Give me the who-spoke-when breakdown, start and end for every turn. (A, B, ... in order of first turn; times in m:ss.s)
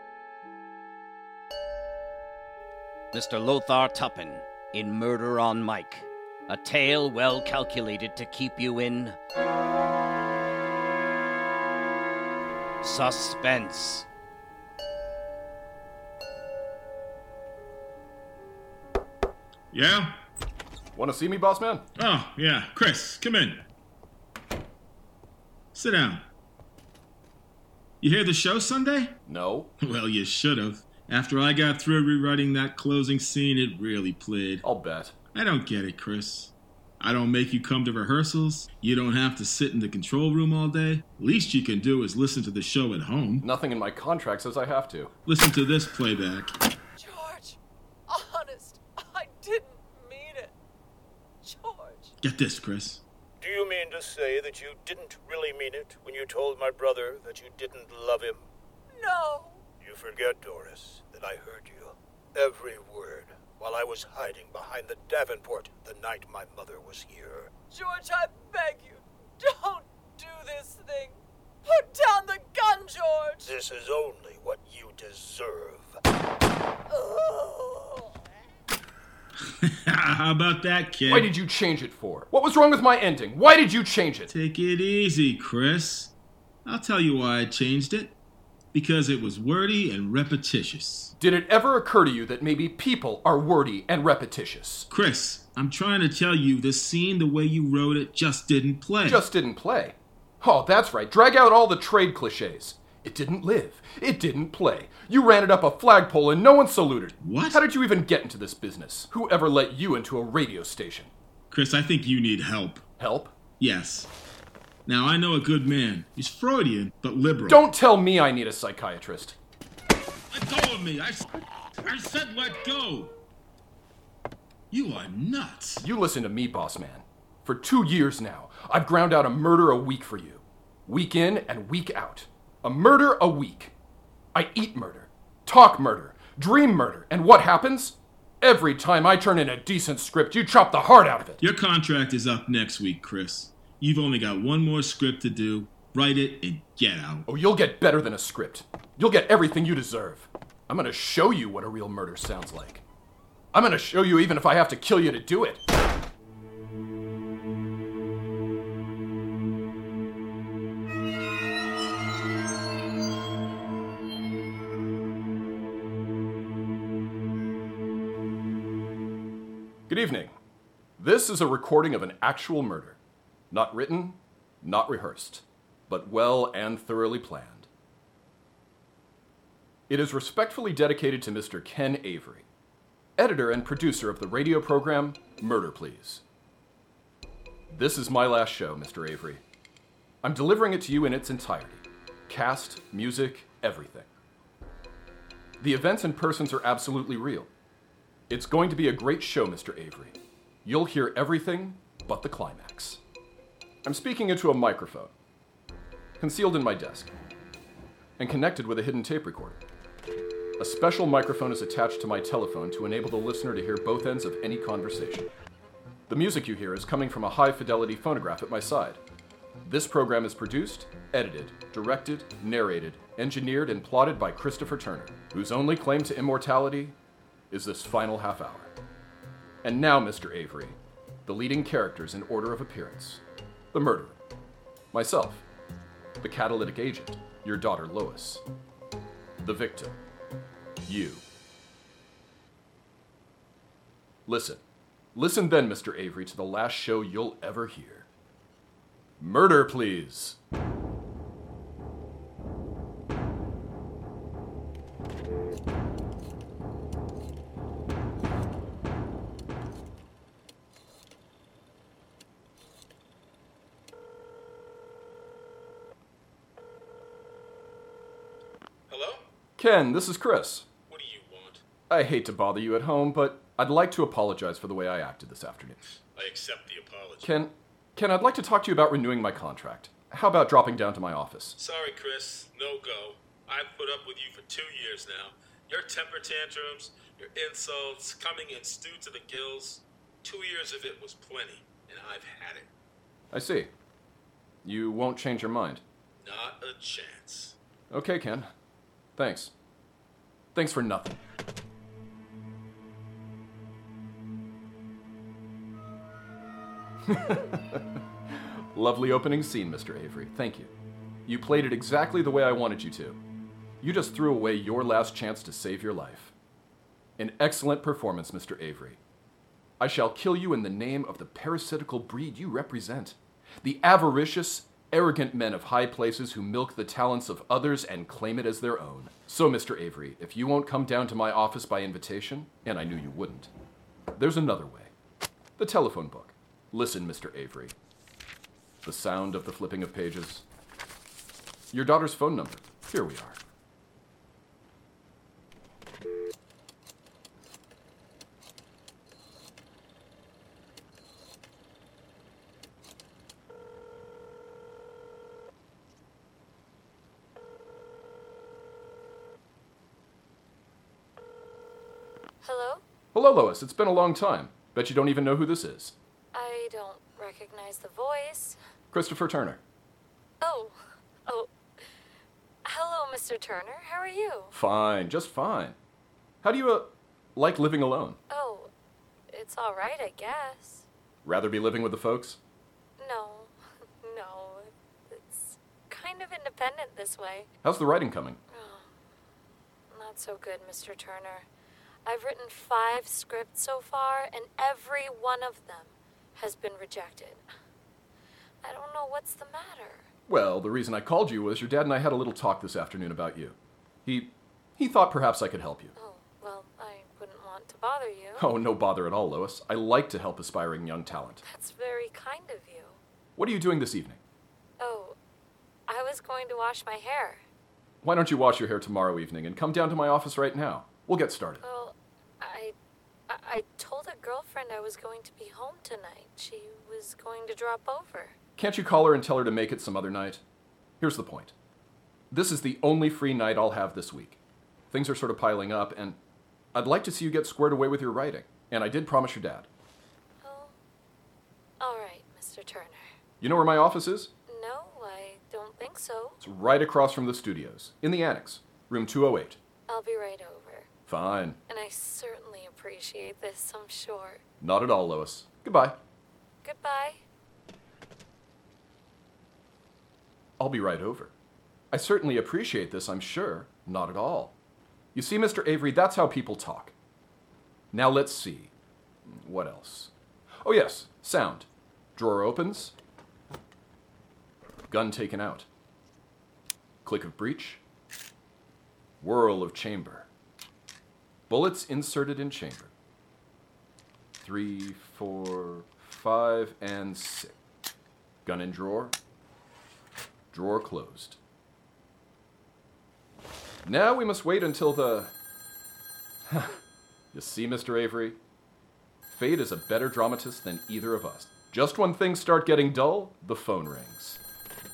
0:03.1-0:09.2 A
0:12.8-0:14.0 A
0:19.7-0:20.2 B
0:20.9-0:21.8 C
0:22.0-0:23.6 B
0:25.7-0:26.2 B
0:28.0-0:29.2 B
0:29.2-0:29.7 C
0:29.8-0:34.6 B
0:34.6-0:35.2 C
0:35.3-0:43.4 B
0:43.4-0:45.1 C
0:45.2-0:46.5 B
0:47.0-0:50.5 D
0:51.4-0:52.1 D
0:52.2-0:53.0 B
0:53.4-0:58.5 E
0:58.9-0:59.6 D
0:59.8-1:07.5 E
1:07.7-1:13.5 D
1:13.4-1:16.0 E
1:16.9-1:18.1 D
1:19.5-1:21.3 B
1:21.1-1:24.3 C
1:24.3-1:26.1 B
1:26.6-1:28.1 B
1:28.7-1:31.1 B
1:31.2-1:34.9 C
1:34.9-1:39.2 B
1:39.0-1:51.1 C
1:47.2-1:47.6 B
1:51.5-1:52.8 B
1:53.0-1:53.3 C
1:53.6-1:54.1 B
1:54.8-1:57.6 B
1:57.5-1:59.4 C
2:00.3-2:01.3 B
2:01.8-2:03.1 B
2:04.7-2:05.8 B
2:05.8-2:13.7 C
2:14.3-2:21.4 C
2:21.4-2:27.3 B
2:27.2-2:32.8 C
2:33.5-2:35.6 C
2:49.9-2:50.3 C
2:51.0-2:53.0 C
2:53.5-2:57.7 C
2:59.9-3:02.4 C
3:03.2-3:06.2 C
3:07.7-3:09.4 C
3:10.2-3:14.1 C
3:15.6-3:17.5 C
3:18.3-3:23.0 C
3:23.8-3:25.1 C
3:26.2-3:27.1 C
3:28.2-3:29.6 C
3:30.6-3:35.3 C
3:36.1-3:39.0 C
3:39.6-3:46.9 C
3:47.5-3:48.7 C
3:49.6-3:53.2 C
3:53.7-3:54.2 C
3:54.9-3:55.4 C
3:56.2-3:58.4 C
3:59.4-4:00.0 C
4:00.9-4:01.2 C
4:04.2-4:04.6 C
4:05.1-4:08.1 C
4:09.2-4:10.4 C
4:28.9-4:29.3 B
4:29.6-4:30.7 C
4:30.9-4:31.6 B
4:31.9-4:35.8 C
4:36.1-4:37.3 B
4:37.2-4:41.6 C
4:41.6-4:52.7 B
4:53.3-4:53.7 C
4:54.6-4:55.8 C
4:56.2-4:57.6 B
4:57.9-4:58.5 C
4:59.2-4:59.5 C
5:00.5-5:01.2 C
5:07.1-5:10.7 C
5:11.3-5:13.2 C
5:13.8-5:16.3 C
5:17.2-5:19.0 C
5:19.8-5:33.5 C
5:34.2-5:34.9 C
5:35.6-5:37.7 C
5:38.8-5:40.4 C
5:41.7-5:43.4 C
6:02.4-6:02.8 F
6:03.1-6:06.0 C
6:06.3-6:08.6 F
6:08.9-6:09.6 C
6:10.4-6:11.5 F
6:12.6-6:14.5 F
6:14.5-6:15.8 C
6:16.4-6:18.2 C
6:18.3-6:18.7 F
6:19.3-6:20.8 F
6:21.2-6:22.4 C
6:23.0-6:27.5 F
6:27.6-6:28.4 C
6:28.5-6:28.9 F
6:29.9-6:31.5 F
6:32.0-6:37.4 F
6:38.6-6:40.1 F
6:40.3-6:45.9 C
6:46.0-6:48.5 F
6:48.4-6:51.4 C
6:51.4-6:53.0 F
6:53.4-6:54.2 C
6:54.8-6:55.2 F
6:55.9-6:57.4 F
6:58.0-7:01.6 C
7:01.6-7:02.7 F
7:03.3-7:08.4 F
7:08.6-7:10.4 C
7:11.0-7:11.5 C
7:12.3-7:14.4 C
7:14.9-7:16.2 C
7:16.7-7:19.7 C
7:20.4-7:20.7 F
7:21.8-7:23.1 F
7:23.4-7:24.3 C
7:24.5-7:26.4 F
7:26.4-7:29.6 C
7:29.9-7:30.9 F
7:31.1-7:31.6 C
7:31.7-7:34.4 F
7:34.6-7:36.0 C
7:36.6-7:37.2 F
7:40.6-7:41.3 C
7:41.9-7:44.5 C
7:45.1-7:46.9 C
7:47.9-7:48.7 C
7:49.2-7:50.1 C
7:50.6-7:52.9 C
7:54.9-7:55.7 C
7:57.0-7:57.8 C
7:59.2-8:00.3 C
8:01.5-8:02.9 C
8:04.4-8:07.5 C
8:08.4-8:09.2 C
8:10.5-8:11.4 C
8:13.8-8:15.3 C
8:16.5-8:16.8 C
8:17.3-8:18.4 C
8:19.3-8:24.4 C